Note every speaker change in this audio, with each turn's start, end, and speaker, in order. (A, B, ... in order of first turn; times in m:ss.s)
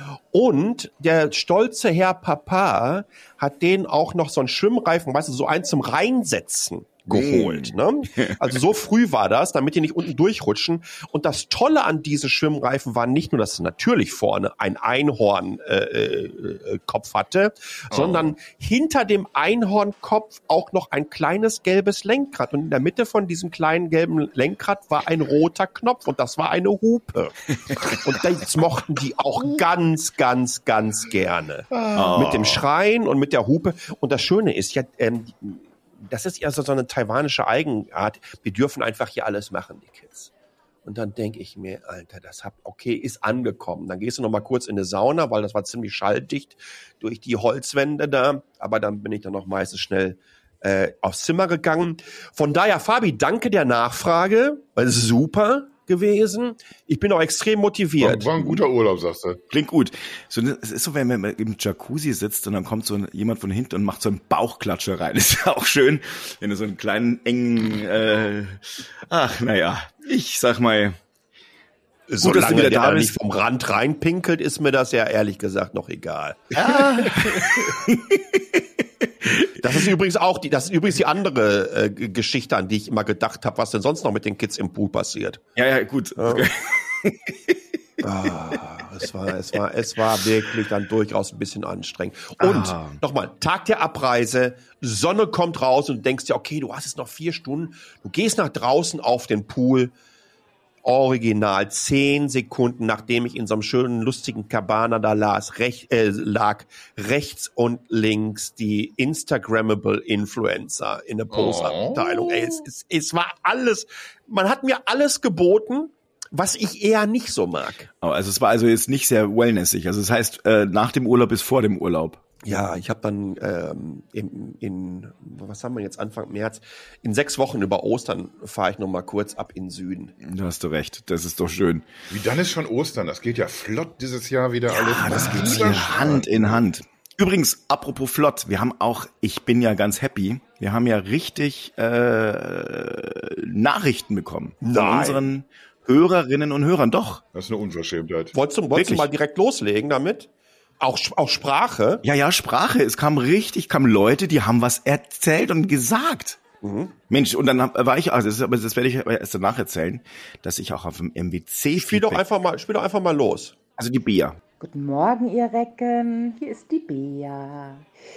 0:00.3-0:40.3 A
0:07.1-0:08.5 B
0:17.9-0:18.3 C
0:31.7-0:32.4 C
0:31.9-0:32.6 B
0:40.8-0:58.6 A
0:58.0-0:59.4 C
0:59.5-1:11.0 B
1:12.1-1:17.6 A
1:12.2-1:13.1 B
1:16.5-1:19.8 B
1:19.6-1:25.4 A
1:25.5-1:28.4 B
1:26.2-1:26.5 A
1:28.0-1:39.9 A
1:32.4-1:33.0 B
1:40.8-1:57.9 A
1:51.3-1:52.6 C
1:58.0-2:02.2 B
2:02.4-2:10.1 A
2:10.2-2:11.8 B
2:12.1-2:16.6 C
2:14.7-2:27.2 B
2:15.2-2:15.5 A
2:24.6-2:25.3 A
2:27.3-2:28.3 C
2:28.3-2:30.3 A
2:28.7-2:29.1 B
2:30.8-2:32.0 A
2:32.0-2:36.4 B
2:36.6-2:37.0 A
2:37.1-2:42.2 B
2:41.7-2:43.6 A
2:43.8-2:44.4 B
2:44.6-2:47.9 D